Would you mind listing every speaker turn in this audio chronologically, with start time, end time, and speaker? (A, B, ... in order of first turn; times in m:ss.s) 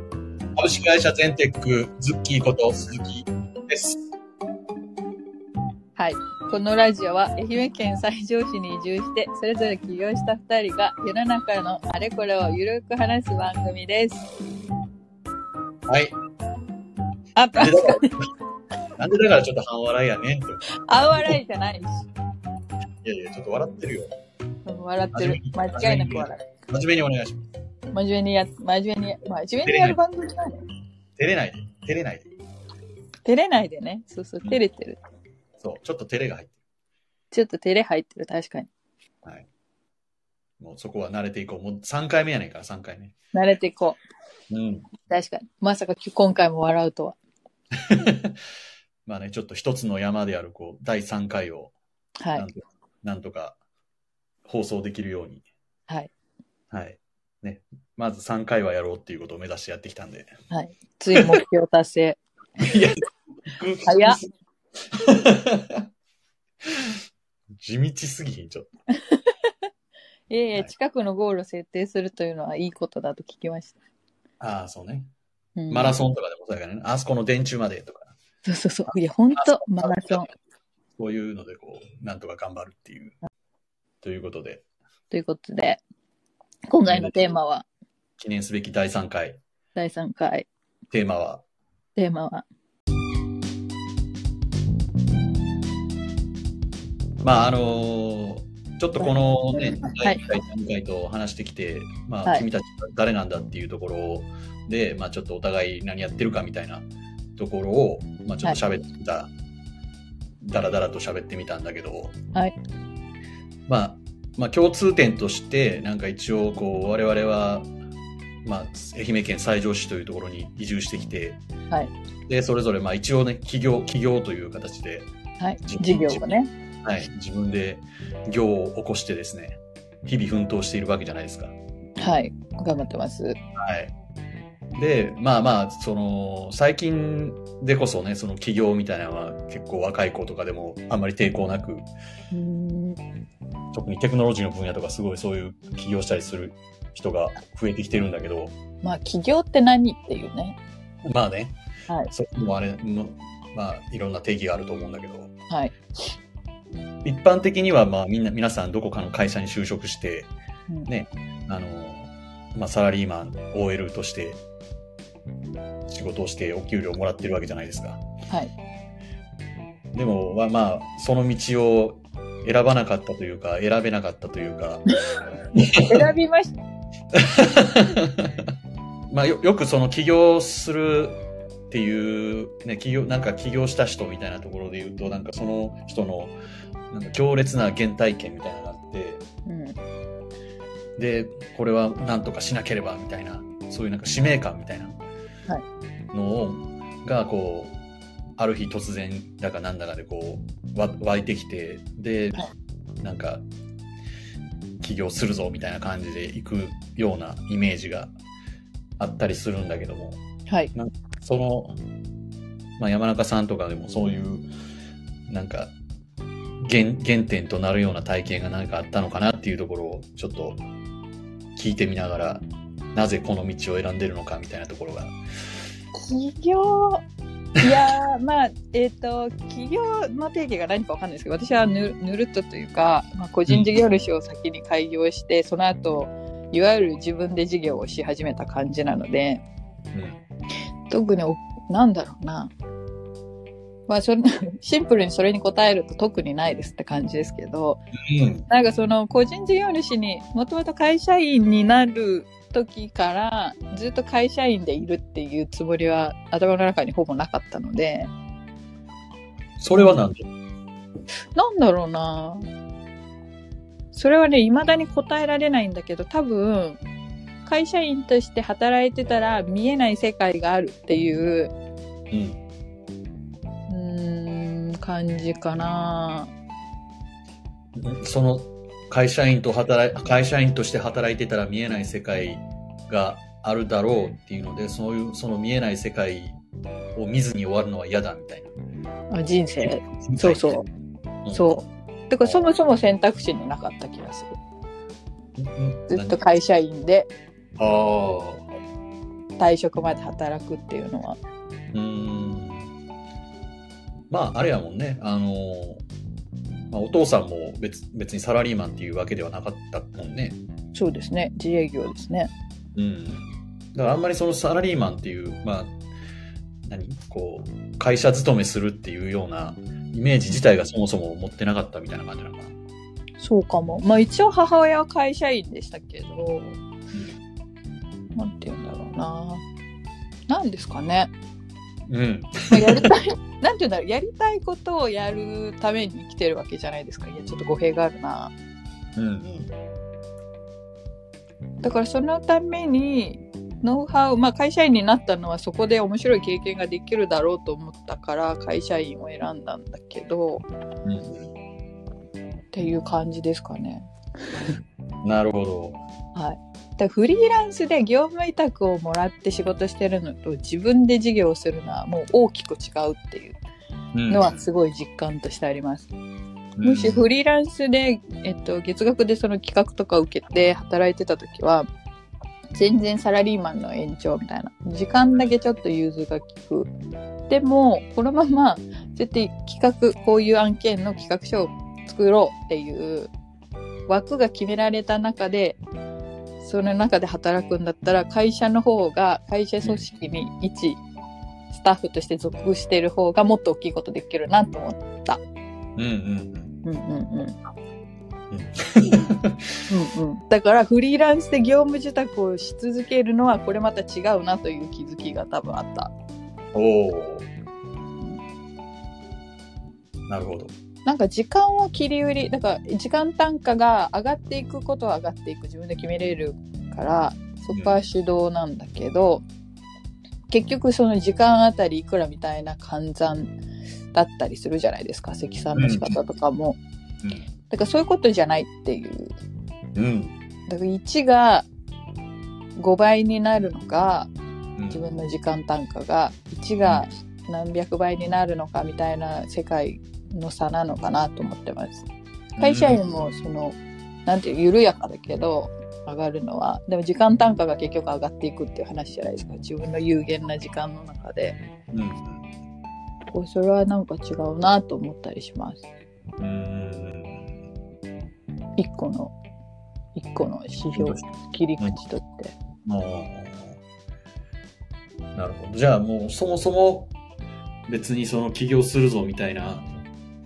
0:00.6-0:04.0 A
0:06.0-0:14.3 B
0:15.9-0:16.1 A
0:17.3-0:18.2 B
0:17.6-0:18.2 A
0:19.0-0:20.6 A
0:20.9-0:22.1 B
0:23.0-0:24.1 A
0:24.7-0:26.5 B
0:25.1-0:27.4 A
0:27.9-0:30.6 B
0:29.6-0:30.0 A
0:31.2-0:32.3 A
0:33.2-0:35.0 B
0:35.6-0:36.6 A
0:37.3-0:38.7 B
0:40.6-0:43.1 A
0:43.3-0:44.0 B
0:44.5-0:44.9 A
0:45.1-0:47.2 B
0:47.8-0:48.4 A
0:49.1-0:51.7 A
0:52.2-0:52.5 B
0:52.3-0:53.6 A
0:54.4-0:55.4 A
0:56.7-1:00.3 A
1:00.5-1:02.2 B
1:02.6-1:04.3 A
1:03.8-1:04.2 B
1:04.9-1:05.9 A
1:06.6-1:07.0 A
1:07.6-1:08.7 A
1:09.0-1:09.5 B
1:10.3-1:13.8 B
1:14.4-1:15.1 A
1:15.6-1:16.0 B
1:15.7-1:18.1 A
1:18.4-1:20.3 B
1:19.4-1:20.3 A
1:21.0-1:23.1 A
1:24.0-1:24.6 A
1:25.1-1:25.8 B
1:26.7-1:27.7 B
1:26.9-1:27.3 A
1:28.2-1:29.4 A
1:29.8-1:30.5 B
1:30.9-1:31.4 A
1:32.0-1:32.4 B
1:37.2-1:49.3 A
1:39.0-1:40.2 B
1:50.4-1:52.2 A
1:53.7-1:57.7 A
1:58.4-2:01.4 A
2:02.3-2:05.1 A
2:05.4-2:06.5 B
2:05.6-2:06.3 A
2:06.8-2:11.5 A
2:12.0-2:13.4 B
2:13.6-2:13.9 A
2:14.8-2:21.9 A
2:22.3-2:23.0 B
2:23.7-2:28.6 A
2:28.8-2:30.6 B
2:31.0-2:31.6 A
2:32.1-2:35.3 A
2:35.5-2:35.8 B
2:37.0-2:40.3 A
2:40.8-2:44.4 A
2:45.9-2:48.0 A
2:49.9-2:54.8 A
2:55.6-2:56.0 A
2:55.8-2:56.5 B
2:57.1-2:58.5 A
2:59.1-3:06.3 A
3:06.9-3:09.2 A
3:09.5-3:09.8 B
3:11.0-3:15.0 A
3:16.1-3:17.8 A
3:18.4-3:22.4 A
3:23.0-3:23.4 A
3:24.8-3:28.1 A
3:29.0-3:30.2 A
3:30.7-3:31.8 A
3:32.8-3:34.5 A
3:35.3-3:35.7 A
3:36.6-3:40.6 A
3:41.6-3:45.2 A
3:45.9-3:47.0 B
3:47.6-3:47.8 A
3:47.6-3:59.4 B
3:53.5-3:53.7 A
3:59.9-4:00.2 A
4:00.9-4:02.5 B
4:03.9-4:07.8 B
4:08.1-4:08.5 A
4:08.5-4:18.1 B
4:19.6-4:20.2 A
4:19.7-4:20.0 B
4:21.4-4:22.5 B
4:23.9-4:26.8 B
4:27.4-4:31.5 B
4:32.1-4:32.4 A
4:33.7-4:36.3 B
4:37.8-4:46.4 A
4:47.0-4:48.5 A
4:49.1-4:50.7 B
4:49.6-4:50.6 A
4:51.2-4:51.6 A
4:51.3-4:54.4 B
4:52.2-4:52.5 A
4:55.4-4:56.2 A
4:55.9-4:57.1 B
4:57.6-4:58.4 A
4:59.4-5:01.2 B
5:01.7-5:02.7 A
5:04.1-5:05.8 A
5:06.7-5:10.4 A
5:10.7-5:12.3 B
5:12.8-5:15.8 A
5:16.6-5:22.5 A
5:23.2-5:26.6 B
5:28.2-5:29.4 B
5:30.3-5:31.1 B
5:31.9-5:32.9 A
5:32.5-5:38.3 B
5:39.0-5:39.5 A
5:41.6-5:50.5 B
5:50.8-5:51.3 A
5:52.5-5:53.9 B
5:55.0-5:55.8 A
5:56.1-6:03.4 B
6:03.9-6:04.4 A
6:04.1-6:05.9 B
6:06.6-6:07.0 A
6:06.6-6:11.7 B
6:12.5-6:16.7 B
6:17.3-6:23.1 B
6:23.9-6:25.6 B
6:26.4-6:30.8 B
6:31.5-6:35.2 B
6:35.8-6:36.5 A
6:36.6-6:37.4 B
6:38.3-6:39.6 A
6:39.7-6:45.9 B
6:46.5-6:47.3 A
6:50.1-6:50.5 A
6:50.8-6:59.2 B
7:00.3-7:03.4 B
7:03.9-7:06.6 B
7:05.6-7:06.0 A
7:07.5-7:09.2 B
7:09.8-7:10.2 A
7:10.5-7:11.5 B
7:12.6-7:14.1 B
7:14.6-7:14.8 A
7:14.7-7:21.9 B
7:22.4-7:22.8 A
7:22.4-7:31.4 B
7:31.7-7:32.3 A
7:33.1-7:35.6 B
7:36.2-7:37.4 A
7:38.6-7:39.1 B
7:40.0-7:42.3 B
7:40.8-7:41.0 A
7:42.6-7:43.6 A
7:45.1-7:46.9 A
7:47.7-7:49.7 A